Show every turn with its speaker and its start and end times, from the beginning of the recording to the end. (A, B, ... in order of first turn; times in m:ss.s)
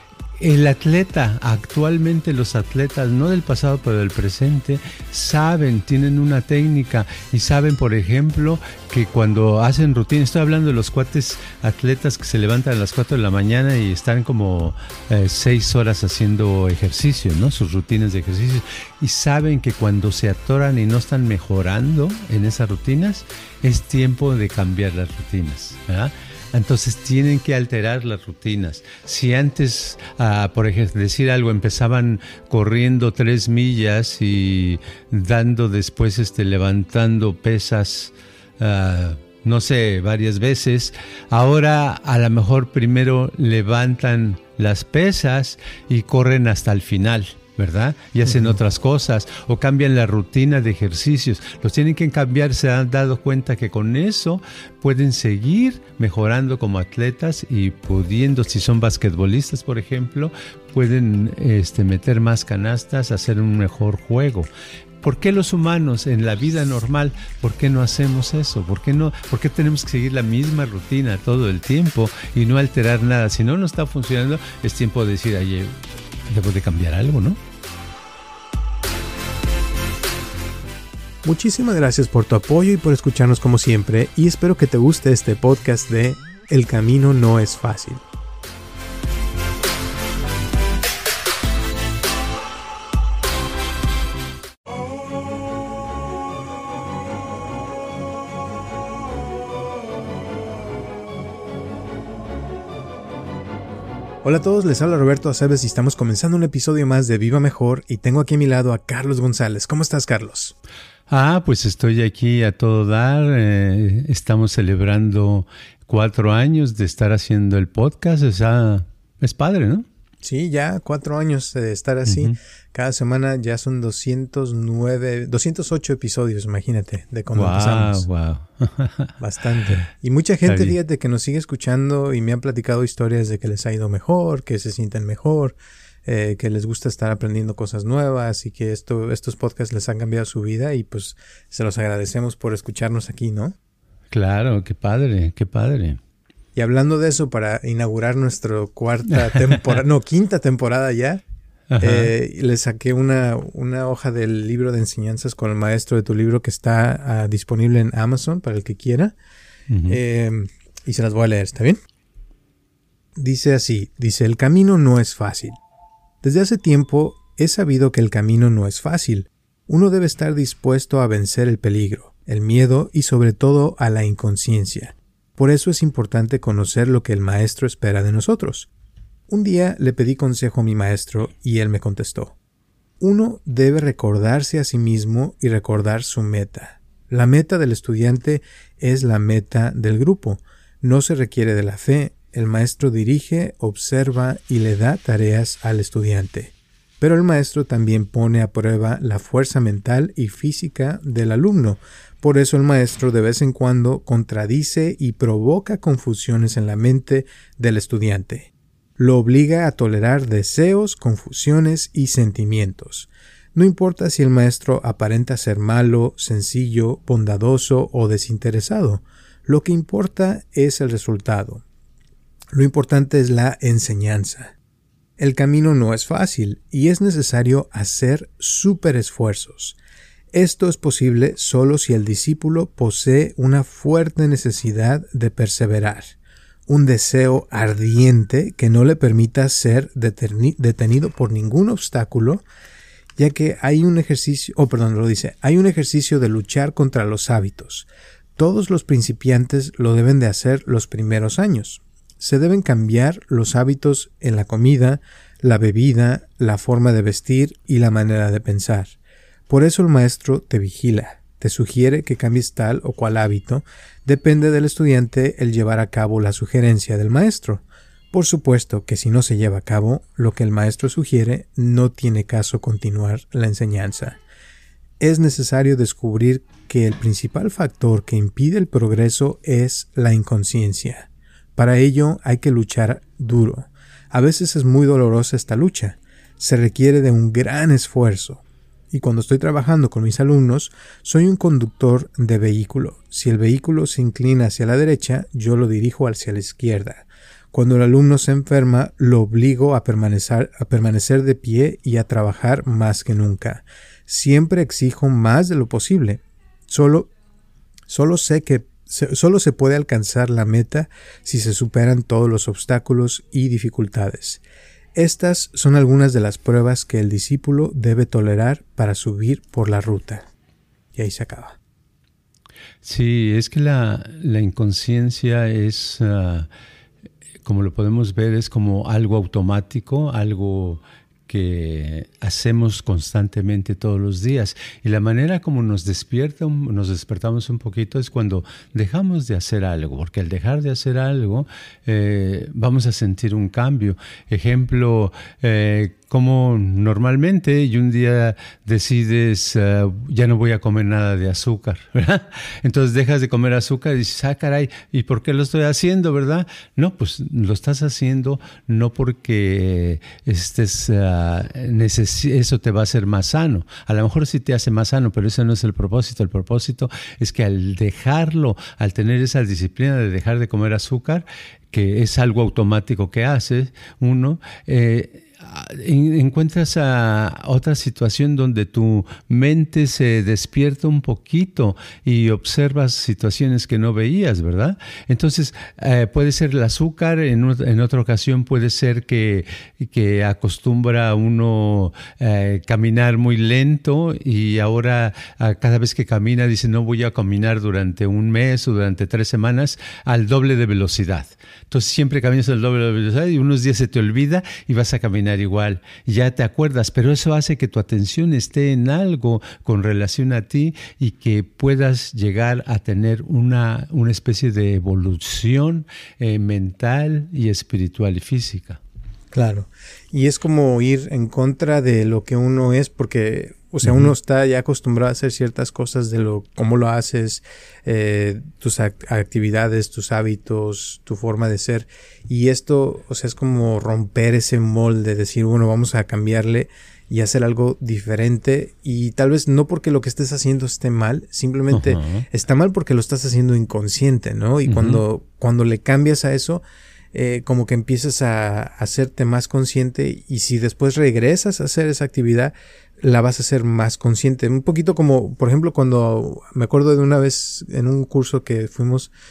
0:00.4-1:04.5 A
0:48.2-0:48.6 B
1:05.0-1:15.8 A
1:16.3-1:17.4 A
1:21.2-1:28.0 B
1:44.2-1:50.5 B
1:51.1-1:59.8 A
2:00.2-2:08.0 B
2:02.0-2:02.3 A
2:07.3-2:09.1 A
2:09.2-2:23.6 B
2:10.4-2:10.8 A
2:24.1-2:26.0 A
2:26.5-2:31.2 B
2:29.1-2:29.8 A
2:31.7-2:32.1 A
2:31.8-2:39.2 B
2:39.7-2:40.0 A
2:39.9-2:41.8 B
2:43.2-2:45.6 B
2:46.2-2:58.7 B
2:59.3-3:02.3 B
3:03.0-3:41.6 B
3:42.5-3:44.5 B
3:45.2-3:49.8 B
3:50.3-3:56.2 B
3:56.7-4:02.4 B
4:03.2-4:19.0 B
4:19.5-4:34.2 B
4:35.0-5:07.1 B
5:07.9-5:14.4 B
5:15.0-5:20.3 B
5:21.0-5:21.6 B
5:22.8-5:26.5 A
5:27.4-6:58.8 A
6:59.3-7:39.1 B
7:03.8-7:04.1 A
7:21.7-7:22.2 A
7:24.6-7:25.0 A